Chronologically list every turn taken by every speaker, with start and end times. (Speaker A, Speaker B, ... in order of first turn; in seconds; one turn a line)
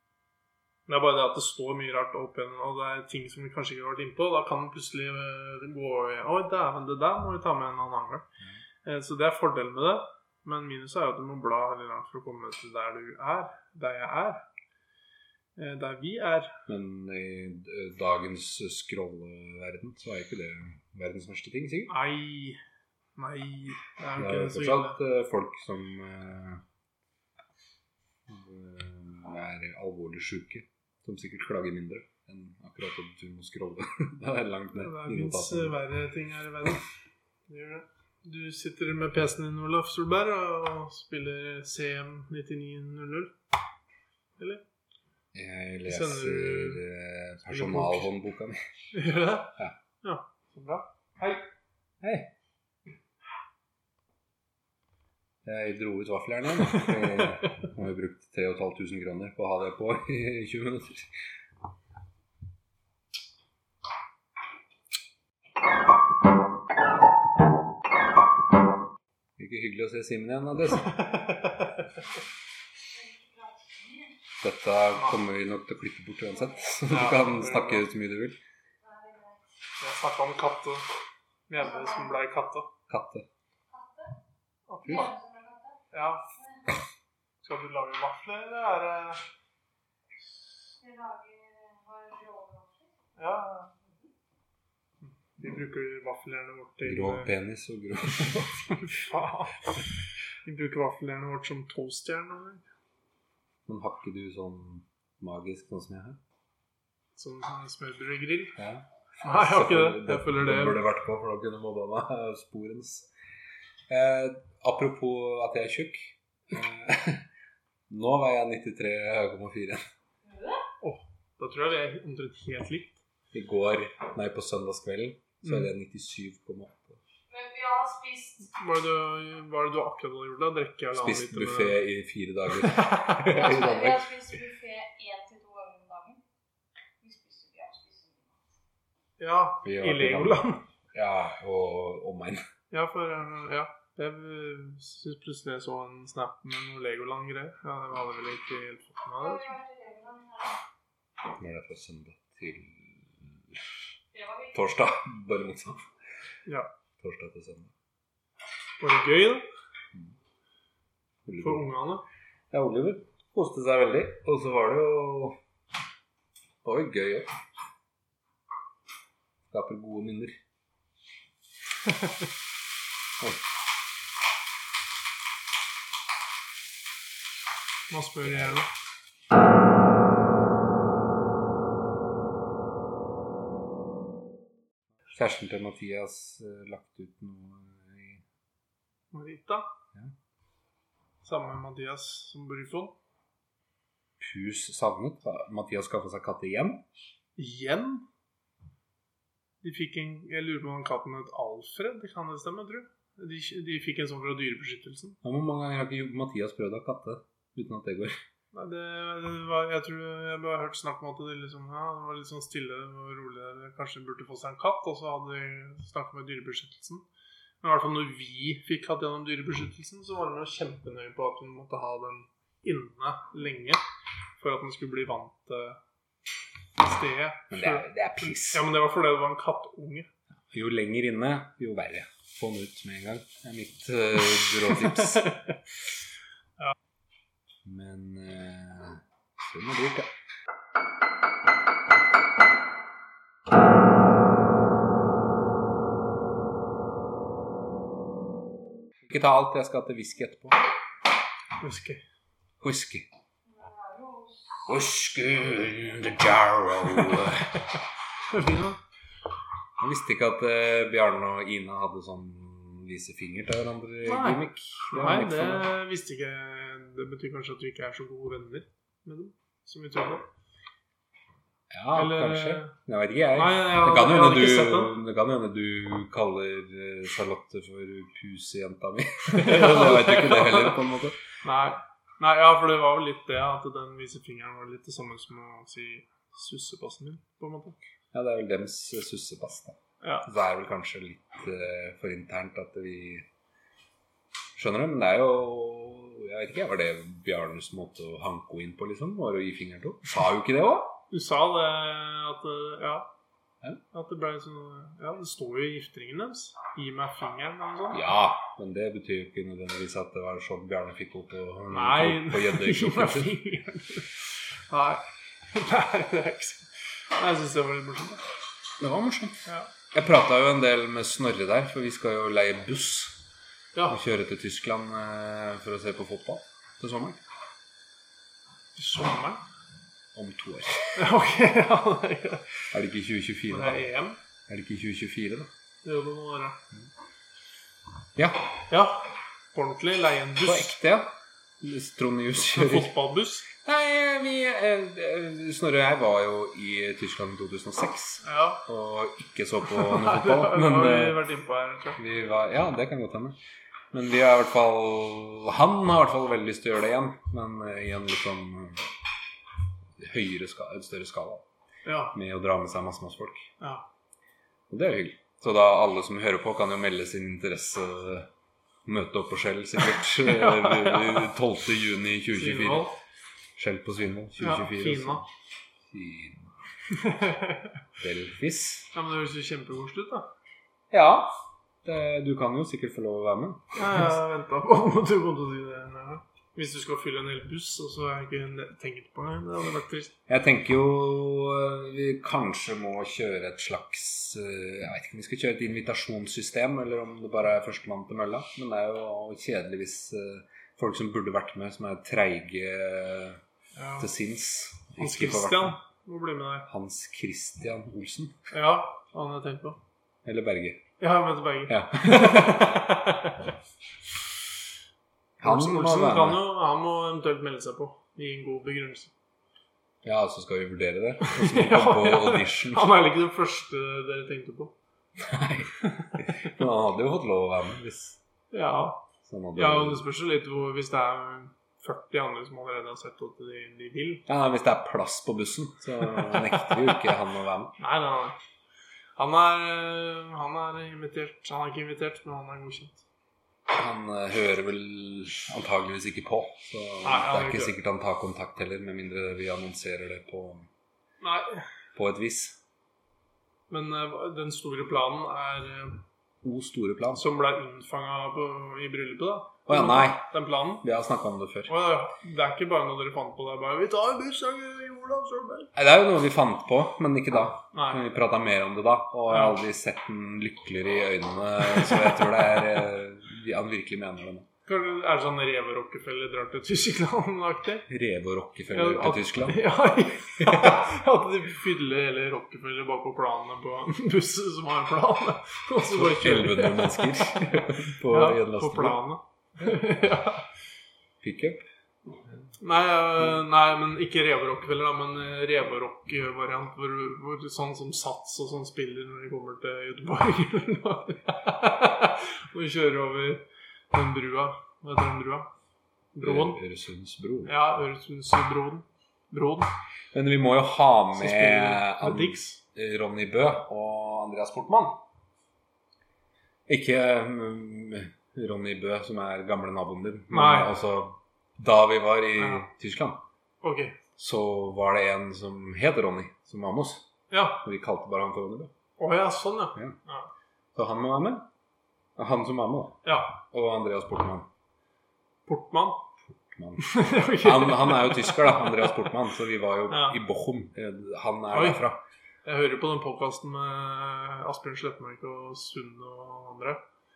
Speaker A: 0.9-8.2
Speaker A: 8.8-14.4
Speaker A: 15.6-16.6
Speaker B: 16.7-21.9
Speaker A: 21.9-22.6
Speaker A: 23.1-25.0
Speaker B: 24.2-26.6
Speaker B: 28.3-35.8
Speaker A: 34.8-36.8
Speaker A: 37.5-43.3
Speaker A: 44.4-44.6
Speaker B: 45.3-48.6
Speaker A: 45.8-46.8
Speaker A: 47.5-48.1
Speaker A: 48.9-51.4
Speaker B: 52.0-52.3
Speaker B: 55.4-61.1
Speaker B: 69.4-71.0
Speaker A: 70.9-71.9
Speaker C: 72.9-74.2
Speaker B: 74.4-78.4
Speaker A: 76.9-77.8
Speaker C: 78.8-79.5
Speaker A: 79.8-80.8
Speaker A: 81.5-82.7
Speaker C: 81.6-82.1
Speaker B: 82.9-83.2
Speaker C: 83.7-84.1
Speaker A: 84.7-85.1
Speaker C: 84.8-85.8
Speaker A: 85.9-86.3
Speaker A: 87.4-89.2
Speaker C: 90.8-92.9
Speaker A: 93.2-93.7
Speaker A: 95.0-97.3
Speaker B: 96.8-98.9
Speaker A: 98.7-99.8
Speaker A: 100.4-102.6
Speaker B: 103.7-106.2
Speaker A: 107.2-108.6
Speaker B: 108.6-113.1
Speaker A: 109.2-110.8
Speaker B: 113.9-117.2
Speaker B: 117.9-119.8
Speaker C: 120.2-120.6
Speaker A: 120.8-123.0
Speaker B: 123.3-127.0
Speaker A: 125.4-125.7
Speaker C: 127.3-128.5
Speaker A: 128.5-131.8
Speaker B: 130.9-134.2
Speaker A: 132.6-133.3
Speaker C: 133.3-136.2
Speaker C: 137.0-138.3
Speaker A: 139.2-140.6
Speaker B: 139.6-142.4
Speaker A: 142.7-149.6
Speaker C: 149.2-150.6
Speaker B: 151.4-153.6
Speaker C: 154.1-154.6
Speaker B: 154.5-155.8
Speaker B: 157.0-157.7
Speaker A: 158.8-159.5
Speaker B: 161.2-161.7
Speaker A: 161.4-162.0
Speaker B: 162.5-165.4
Speaker B: 166.6-167.3
Speaker B: 169.5-170.4
Speaker A: 177.9-178.7
Speaker B: 178.2-178.6
Speaker B: 185.1-188.2
Speaker A: 189.1-189.7
Speaker A: 191.2-193.0
Speaker B: 194.2-196.8
Speaker A: 197.4-198.1
Speaker A: 199.6-205.2
Speaker B: 205.2-208.2
Speaker A: 208.5-217.1
Speaker A: 217.6-223.8
Speaker A: 224.4-225.8
Speaker A: 226.8-230.1
Speaker B: 227.5-228.6
Speaker B: 230.5-235.3
Speaker A: 234.6-235.6
Speaker B: 237.6-240.1
Speaker B: 249.1-250.6
Speaker A: 251.6-252.0
Speaker B: 252.6-253.1
Speaker C: 253.4-254.6
Speaker B: 254.7-257.6
Speaker A: 258.2-258.8
Speaker B: 259.8-265.7
Speaker A: 264.0-270.3
Speaker B: 271.7-281.2
Speaker A: 271.9-272.7
Speaker A: 273.3-274.9
Speaker A: 279.3-280.8
Speaker A: 281.4-287.8
Speaker B: 288.1-293.2
Speaker B: 294.6-301.0
Speaker A: 301.1-303.1
Speaker A: 303.9-308.0
Speaker B: 307.9-313.4
Speaker A: 311.7-318.2
Speaker B: 318.8-323.2
Speaker A: 319.4-319.7
Speaker B: 323.9-327.2
Speaker A: 328.7-329.4
Speaker B: 330.1-331.0
Speaker A: 330.9-332.6
Speaker B: 332.7-333.8
Speaker A: 333.5-334.2
Speaker B: 334.5-335.5
Speaker A: 335.8-336.6
Speaker B: 338.1-338.5
Speaker A: 338.7-340.8
Speaker B: 340.4-342.9
Speaker A: 342.5-343.4
Speaker B: 343.5-351.2
Speaker A: 348.2-348.6
Speaker A: 349.7-352.0
Speaker B: 352.0-353.4
Speaker B: 353.9-358.8
Speaker B: 360.0-361.4
Speaker A: 361.8-362.1
Speaker B: 362.1-363.5
Speaker A: 363.6-363.9
Speaker B: 364.7-368.3
Speaker B: 368.8-372.9
Speaker A: 370.0-371.3
Speaker A: 372.3-372.9
Speaker B: 373.6-375.2
Speaker A: 374.4-375.2
Speaker B: 375.9-376.5
Speaker A: 376.9-377.8
Speaker B: 378.0-378.9
Speaker A: 378.9-380.3
Speaker B: 380.9-383.7
Speaker A: 383.7-390.1
Speaker B: 390.3-403.4
Speaker A: 403.7-404.1
Speaker B: 404.0-405.8
Speaker A: 405.0-406.7
Speaker B: 406.7-408.4
Speaker A: 408.5-409.8
Speaker B: 410.2-410.8
Speaker A: 411.0-413.4
Speaker B: 411.7-412.9
Speaker B: 415.4-416.4
Speaker A: 415.4-419.1
Speaker B: 420.0-422.9
Speaker A: 421.2-424.7
Speaker B: 425.2-428.2
Speaker A: 425.8-426.1
Speaker A: 428.5-434.2
Speaker B: 429.2-430.0
Speaker B: 434.3-437.7
Speaker A: 436.1-436.9
Speaker A: 437.8-438.4
Speaker A: 439.2-443.0
Speaker B: 443.7-450.7
Speaker A: 447.0-447.8
Speaker A: 451.2-451.6
Speaker B: 451.9-452.6
Speaker A: 453.7-456.0
Speaker B: 456.4-457.2
Speaker A: 457.1-460.8
Speaker B: 459.6-460.2
Speaker B: 460.8-461.7
Speaker A: 461.7-465.7
Speaker B: 465.7-474.5
Speaker A: 467.7-468.0
Speaker A: 469.3-469.6
Speaker A: 471.7-472.2
Speaker A: 474.6-477.9
Speaker B: 477.9-479.7
Speaker A: 478.7-490.5
Speaker B: 480.4-480.8
Speaker B: 485.9-489.0
Speaker B: 491.2-491.6
Speaker A: 492.6-505.5
Speaker A: 506.1-506.6
Speaker B: 506.2-507.5
Speaker A: 507.4-509.7
Speaker B: 510.1-515.0
Speaker A: 511.1-512.6
Speaker B: 516.7-523.2
Speaker A: 520.3-520.7
Speaker A: 522.4-522.6
Speaker A: 523.6-524.0
Speaker B: 524.1-528.7
Speaker A: 527.3-527.6
Speaker A: 529.0-530.3
Speaker B: 530.7-531.5
Speaker B: 532.2-534.5
Speaker A: 533.0-533.3
Speaker A: 535.5-536.0
Speaker B: 536.4-542.0
Speaker A: 536.8-539.0
Speaker A: 539.9-540.2
Speaker A: 541.5-541.8
Speaker A: 542.4-546.8